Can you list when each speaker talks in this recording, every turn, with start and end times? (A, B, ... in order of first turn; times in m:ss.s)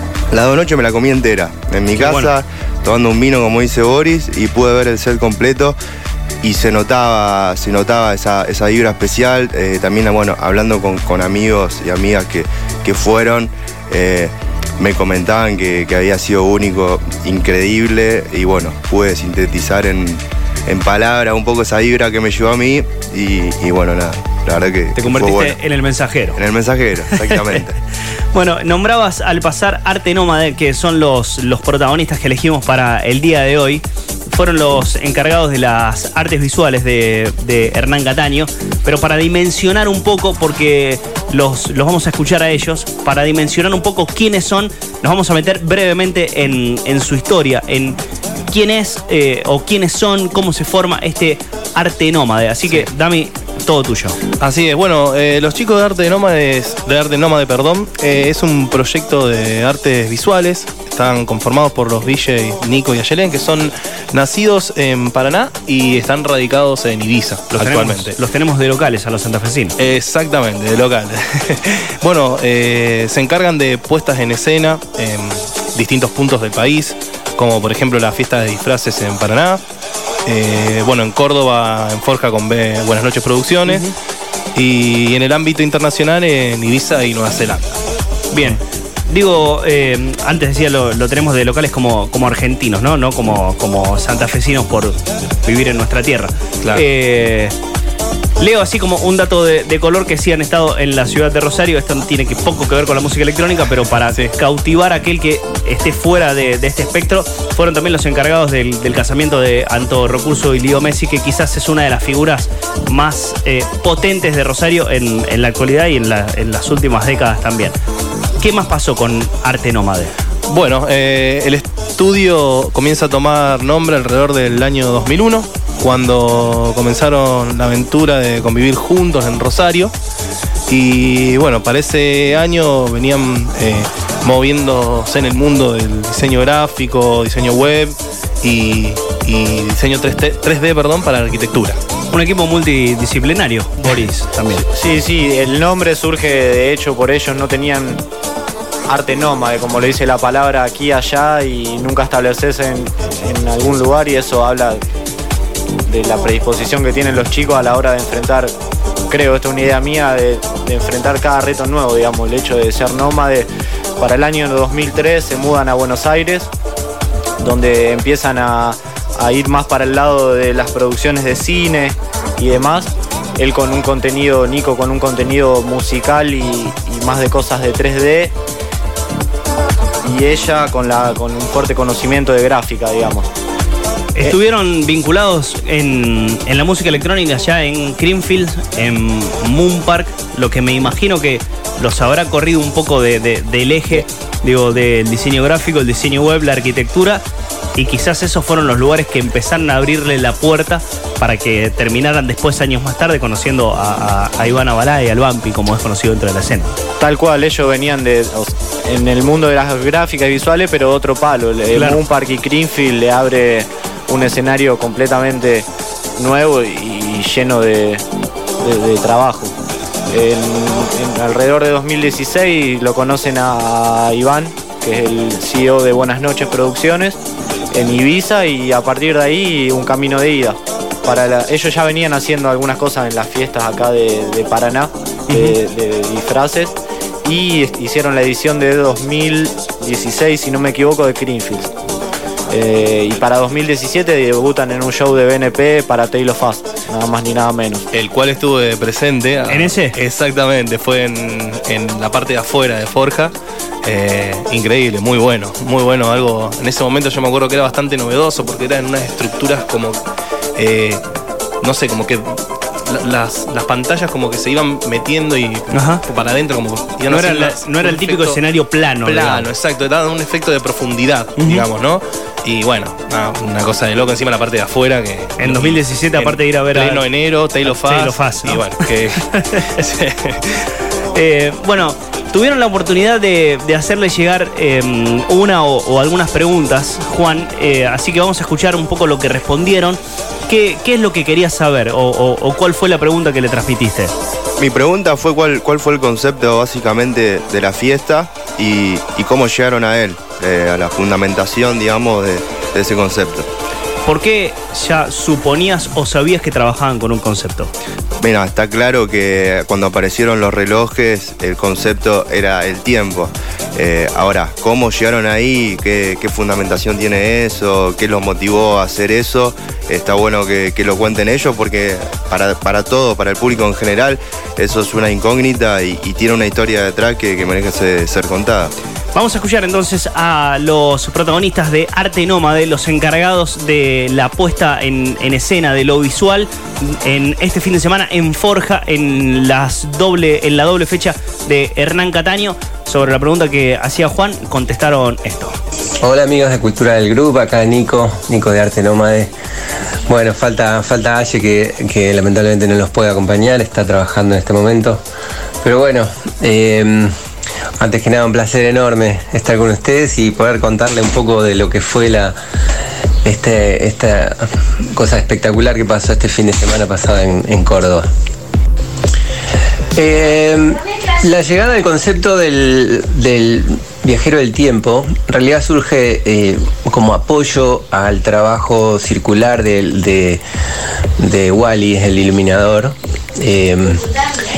0:00.3-0:05.8 A
0:01.9-0:02.3 B
0:06.4-0:25.6 A
0:24.9-0:26.4 B
0:26.3-0:27.8 A
0:27.1-0:27.5 B
0:28.3-0:48.0 B
0:48.5-0:54.2 B
0:54.4-1:08.2 C
1:07.5-1:09.7 B
1:09.8-1:19.6 C
1:20.2-1:23.8 C
1:23.6-1:23.9 B
1:24.5-1:27.8 C
1:28.3-1:37.5 B
1:38.4-1:57.7 B
1:58.4-2:00.1 B
2:00.5-2:09.9 C
2:10.7-2:21.8 C
2:22.1-2:24.6 B
2:24.7-2:28.0 D
2:28.9-2:34.8 D
2:35.9-2:38.5 D
2:39.1-2:46.5 D
2:47.4-2:58.3 D
3:00.0-3:03.3 D
3:04.2-3:17.2 B
3:17.8-3:26.7 B
3:27.0-3:35.7 D
3:31.7-3:32.0 B
3:36.2-3:38.0 D
3:38.6-3:39.5 D
3:40.1-3:47.2 D
3:47.7-4:01.7 D
3:55.3-3:55.6 B
4:02.5-4:07.8 D
4:07.9-4:13.3 C
4:09.5-4:10.0 B
4:13.8-4:20.0 C
4:20.6-4:21.0 C
4:21.6-4:28.4 C
4:25.7-4:26.0 B
4:27.1-4:29.5 B
4:29.0-4:40.6 C
4:31.4-4:31.6 B
4:35.4-4:37.0 B
4:37.6-4:39.6 B
4:41.1-4:54.1 B
4:54.6-5:03.5 A
5:04.0-5:07.7 B
5:08.2-5:28.7 A
5:29.1-5:45.6 B
5:46.0-5:49.3 E
5:50.1-5:55.0 E
5:55.6-5:57.1 E
5:57.8-6:02.3 E
6:03.2-6:08.1 E
6:09.9-6:20.4 E
6:21.2-6:24.1 E